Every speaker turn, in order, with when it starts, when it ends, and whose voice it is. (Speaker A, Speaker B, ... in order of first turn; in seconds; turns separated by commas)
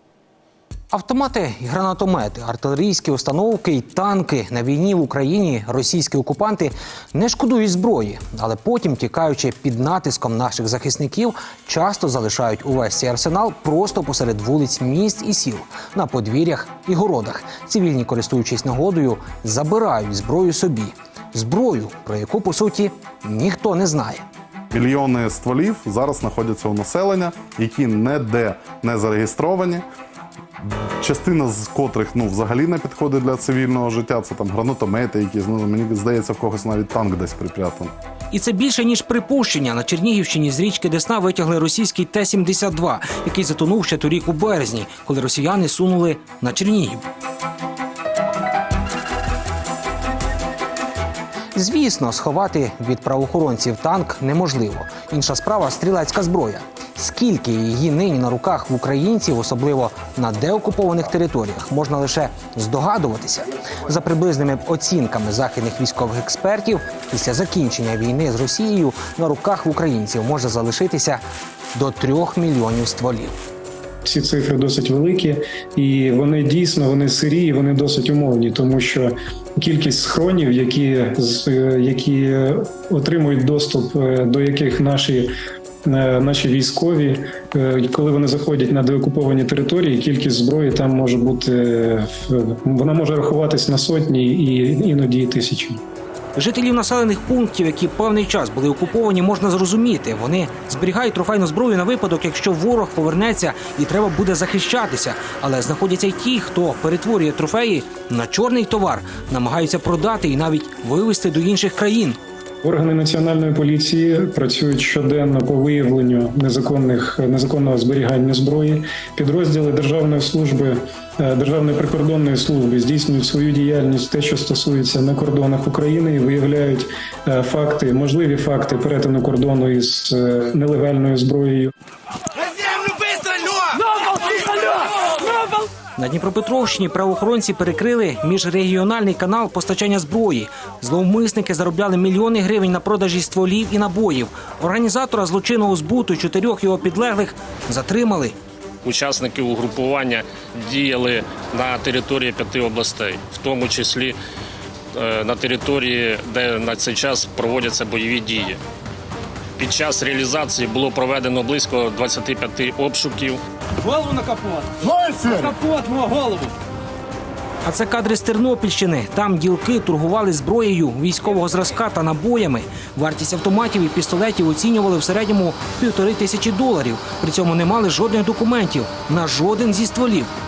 Speaker A: 0.9-24.2, Speaker B: 24.7-29.9, Speaker B: 31.0-37.9, Speaker A: 38.3-47.0, Speaker A: 51.5-71.2, Speaker A: 71.7-73.4, Speaker C: 74.0-85.3, Speaker C: 85.8-95.8, Speaker A: 96.4-112.2, Speaker C: 112.6-131.7, Speaker A: 136.0-148.4, Speaker D: 148.8-154.2, Speaker D: 154.9-158.6, Speaker D: 159.6-163.4, Speaker E: 163.9-166.5, Speaker A: 167.6-180.3